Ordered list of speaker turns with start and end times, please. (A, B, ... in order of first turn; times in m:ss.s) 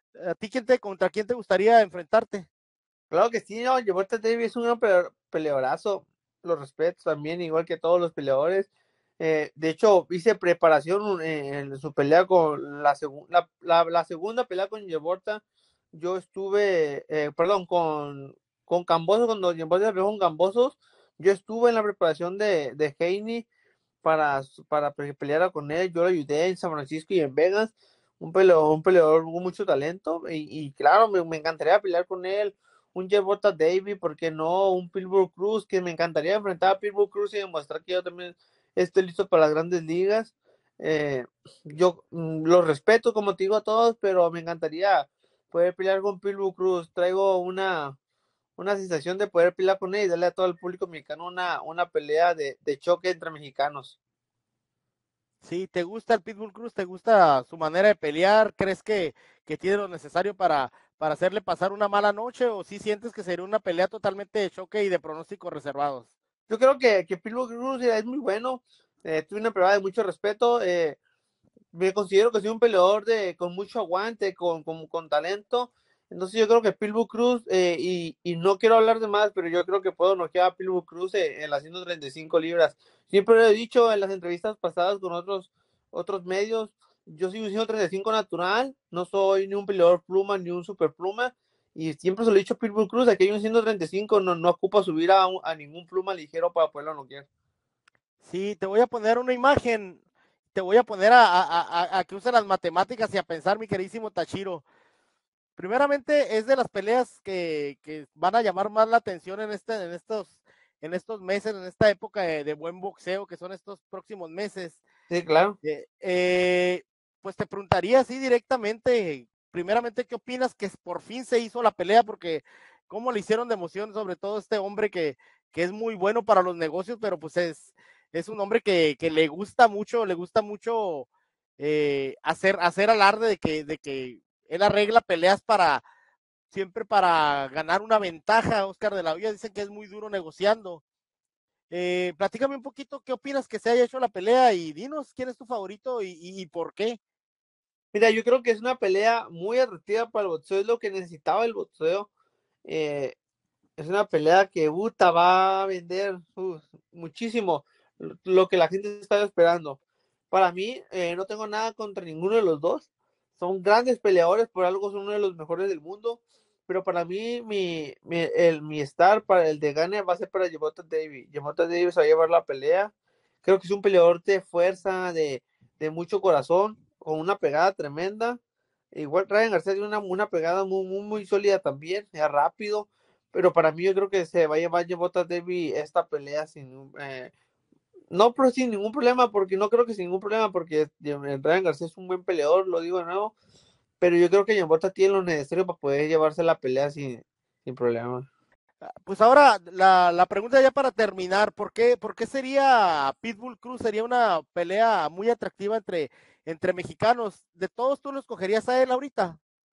0:00.2-0:02.5 A
0:03.1-0:15.4 B
0:15.9-0:23.5 B
0:24.0-0:48.0 B
0:48.6-0:54.0 B
0:55.4-1:06.1 A
1:06.5-1:11.0 B
1:11.7-1:37.3 B
1:38.2-1:40.0 A
1:40.5-1:44.6 A
1:45.6-1:54.8 A
1:55.1-1:55.6 B
1:55.6-2:11.1 A
2:11.6-2:15.8 A
2:16.5-2:20.8 A
2:21.7-2:27.0 A
2:27.9-2:32.1 B
2:32.7-2:33.2 B
2:33.8-2:39.8 B
2:40.3-2:42.9 B
2:43.4-2:52.9 B
2:53.4-2:58.4 B
2:58.9-3:07.3 B
3:08.1-3:13.3 B
3:14.0-3:18.3 B
3:19.1-3:29.4 A